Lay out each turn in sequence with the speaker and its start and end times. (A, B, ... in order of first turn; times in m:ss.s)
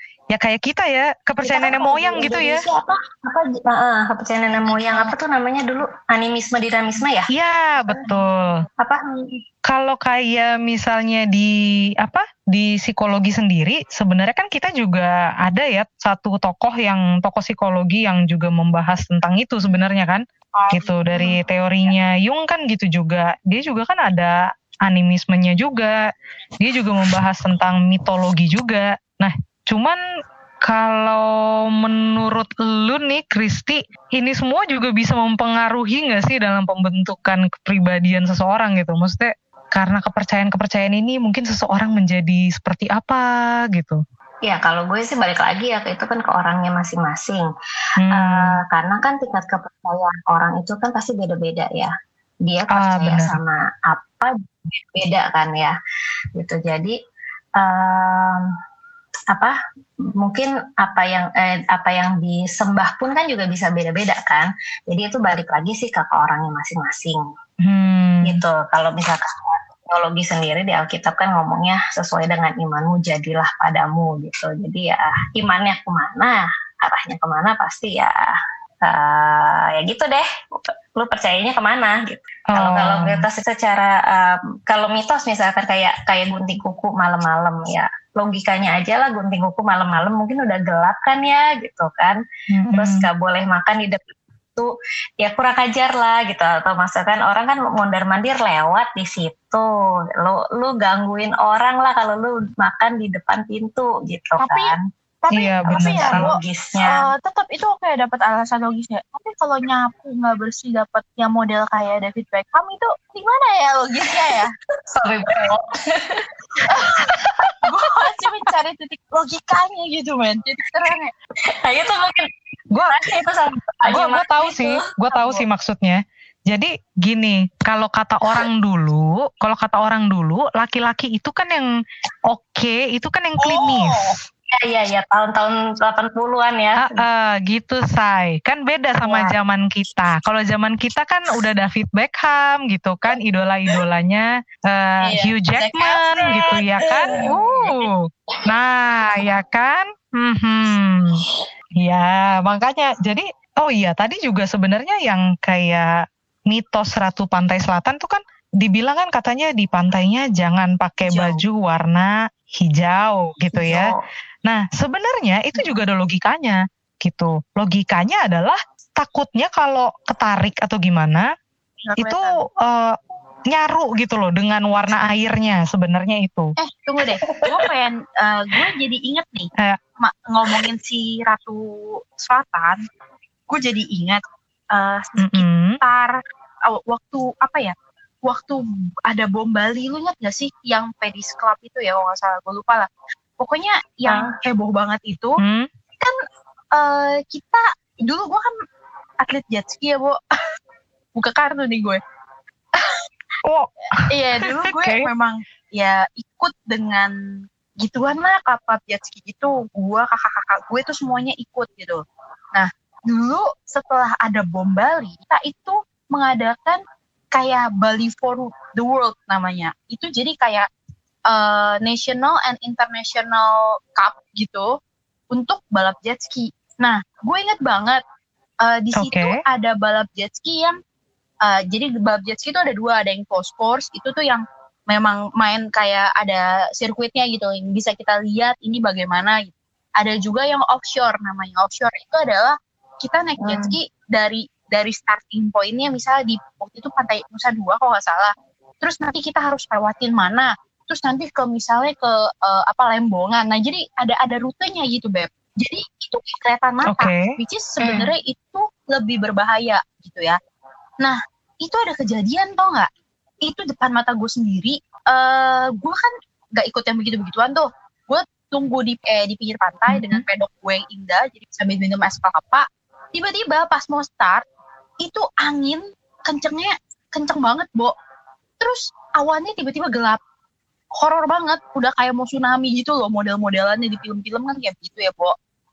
0:00.3-0:02.6 A
0:01.4-0:02.5 B
0:02.2-0:07.3 C
0:04.6-0:05.1 B
0:07.3-0:08.6 A
0:07.8-0:08.7 B
0:08.8-0:09.4 C
0:09.7-0:11.5 A
0:12.0-0:26.0 A
0:20.6-0:21.4 B
0:26.6-0:30.0 A
0:30.6-0:44.0 A
0:44.5-0:47.5 C
0:48.0-0:48.6 A
0:48.1-0:51.9 C
0:52.4-0:55.8 C
0:52.8-0:53.4 A
0:56.4-0:57.0 C
0:57.6-0:58.5 C
1:00.2-1:07.2 C
1:07.6-1:08.4 A
1:08.2-1:32.2 C
1:22.5-1:23.2 A
1:32.5-1:33.0 A
1:32.7-1:39.7 C
1:40.2-1:44.8 C
1:44.4-1:54.5 B
1:45.3-1:46.3 A
1:45.7-1:47.0 C
1:54.9-1:57.6 C
1:56.7-1:57.1 B
1:57.6-2:01.1 B
2:01.6-2:02.4 C
2:02.7-2:03.0 A
2:02.9-2:04.8 C
2:03.9-2:11.7 A
2:05.1-2:05.4 B
2:12.3-2:14.2 A
2:13.4-2:14.2 B
2:14.5-2:17.0 C
2:16.8-2:31.2 A
2:19.0-2:19.4 C
2:25.0-2:27.9 B
2:31.8-2:35.9 A
2:36.5-2:43.9 A
2:41.0-2:41.4 B
2:43.5-2:44.0 C
2:44.5-2:51.3 A
2:51.8-2:52.4 B
2:52.0-2:53.0 A
2:53.5-2:56.6 A
2:56.6-3:02.8 B
2:57.0-2:57.6 C
3:03.5-3:04.2 B
3:04.7-3:06.2 B
3:05.2-3:05.8 A
3:06.7-3:12.9 B
3:13.4-3:15.4 B
3:14.1-3:14.3 C
3:15.4-3:15.7 A
3:16.8-3:18.5 B
3:19.2-3:20.2 B
3:21.2-3:22.0 B
3:23.4-3:25.1 A
3:24.1-3:27.1 B
3:27.8-3:32.0 B
3:32.5-3:36.8 B
3:37.3-3:40.7 B
3:41.3-3:44.7 B
3:45.3-3:48.0 B
3:48.6-3:50.8 B
3:49.0-3:49.4 A
3:51.4-4:20.4 B
4:03.4-4:03.8 C
4:16.9-4:17.3 A
4:17.8-4:18.1 C
4:21.0-4:22.9 B
4:23.4-4:34.4 B
4:29.9-4:30.2 A
4:35.0-4:37.9 B
4:38.6-4:40.2 B
4:41.0-4:45.4 B